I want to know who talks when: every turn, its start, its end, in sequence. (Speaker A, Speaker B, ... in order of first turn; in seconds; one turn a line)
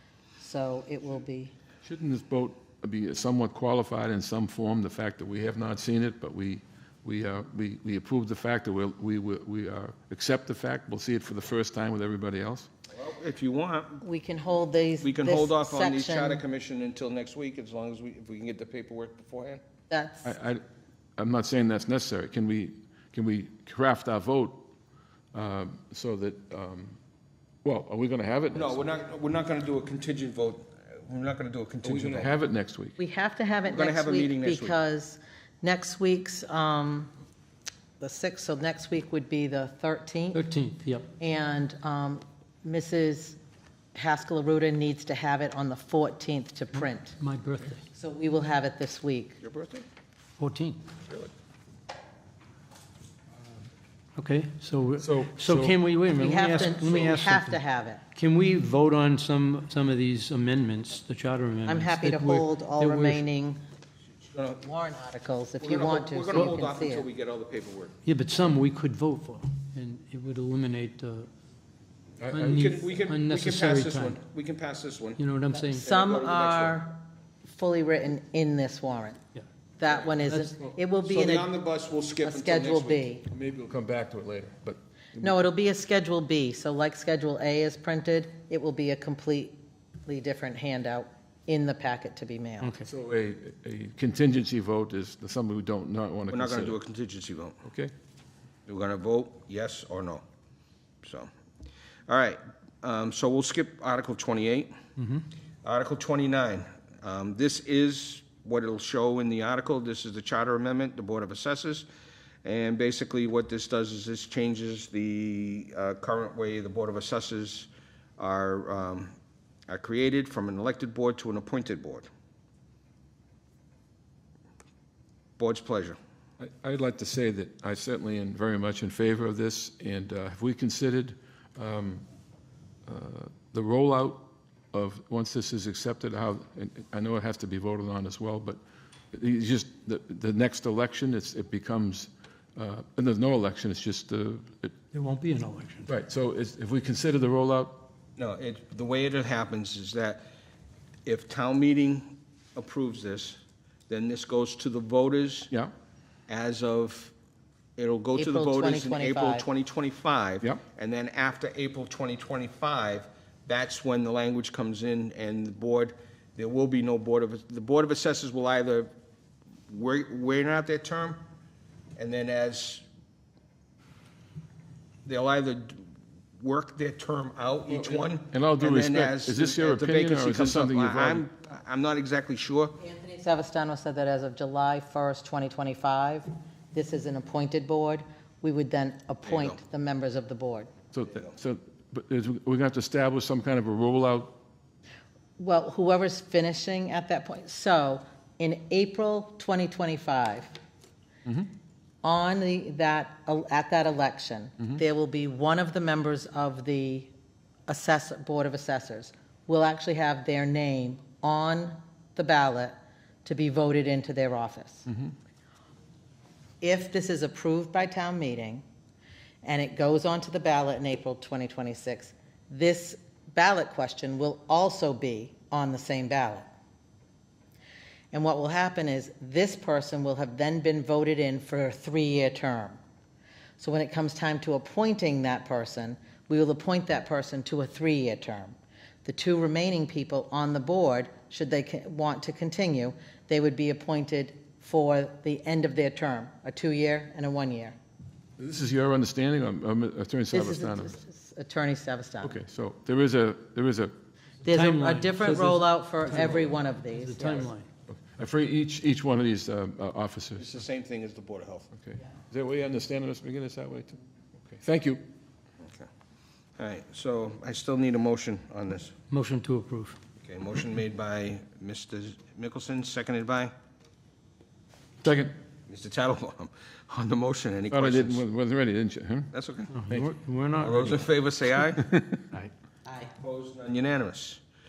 Speaker A: 0.4-1.5
Speaker B: 1.9-12.7
Speaker C: 12.9-14.0
Speaker A: 14.0-16.4
Speaker C: 15.0-19.6
Speaker A: 19.9-20.3
Speaker B: 20.2-20.6
Speaker B: 21.2-24.7
Speaker B: 25.3-27.0
Speaker B: 27.6-28.8
Speaker C: 28.6-32.3
Speaker B: 31.8-33.0
Speaker A: 33.0-37.1
Speaker C: 33.6-34.8
Speaker A: 38.0-40.5
Speaker D: 40.3-41.1
Speaker A: 41.2-43.4
Speaker A: 44.0-47.2
Speaker D: 47.2-47.8
Speaker A: 47.9-49.4
Speaker C: 49.4-49.9
Speaker D: 50.4-50.8
Speaker D: 54.2-57.6
Speaker B: 55.0-55.8
Speaker A: 56.1-58.0
Speaker D: 58.1-63.2
Speaker A: 61.7-63.6
Speaker C: 64.3-64.6
Speaker A: 64.6-67.1
Speaker C: 65.6-68.0
Speaker D: 68.0-71.3
Speaker B: 72.2-72.7
Speaker D: 72.3-74.2
Speaker C: 72.5-75.2
Speaker D: 75.2-75.8
Speaker A: 75.5-79.2
Speaker C: 75.8-76.8
Speaker A: 79.8-81.5
Speaker D: 80.3-80.5
Speaker C: 81.1-83.1
Speaker A: 82.2-83.3
Speaker B: 83.3-85.4
Speaker A: 85.2-92.8
Speaker D: 92.6-92.9
Speaker B: 92.8-96.8
Speaker C: 96.3-97.6
Speaker B: 97.7-97.9
Speaker C: 98.7-100.2
Speaker C: 101.0-101.3
Speaker C: 102.1-104.8
Speaker D: 105.0-105.2
Speaker C: 105.6-111.9
Speaker C: 112.4-119.1
Speaker C: 119.7-122.1
Speaker C: 125.4-126.0
Speaker B: 126.4-132.1
Speaker B: 132.9-138.6
Speaker B: 139.1-144.8
Speaker D: 144.9-145.9
Speaker B: 145.9-147.9
Speaker C: 148.2-150.2
Speaker C: 151.1-155.5
Speaker C: 156.3-157.1
Speaker C: 157.8-168.9
Speaker A: 158.2-159.5
Speaker C: 169.7-171.2
Speaker C: 172.0-172.8
Speaker C: 175.1-175.9
Speaker C: 176.4-182.8
Speaker B: 177.7-181.2
Speaker A: 182.8-190.7
Speaker C: 189.3-189.6
Speaker B: 190.9-194.4
Speaker A: 195.4-200.6
Speaker A: 202.0-207.1
Speaker A: 207.7-214.9
Speaker A: 216.6-218.6
Speaker A: 219.4-226.5
Speaker A: 228.1-232.8
Speaker A: 233.6-247.8
Speaker B: 248.4-251.0
Speaker A: 250.3-252.4
Speaker B: 252.2-253.9
Speaker A: 254.4-257.5
Speaker D: 254.5-257.7
Speaker B: 257.9-260.6
Speaker C: 260.4-261.7
Speaker B: 261.7-264.0
Speaker B: 264.6-265.0
Speaker C: 265.6-265.9
Speaker C: 266.6-268.9
Speaker D: 269.1-270.0
Speaker C: 270.2-273.5
Speaker B: 275.0-275.4
Speaker C: 275.7-278.2
Speaker B: 277.7-279.3
Speaker C: 279.3-279.7
Speaker D: 279.7-280.9
Speaker B: 279.9-280.1
Speaker C: 280.6-282.0
Speaker B: 281.7-282.5
Speaker A: 282.9-283.1
Speaker C: 283.2-284.4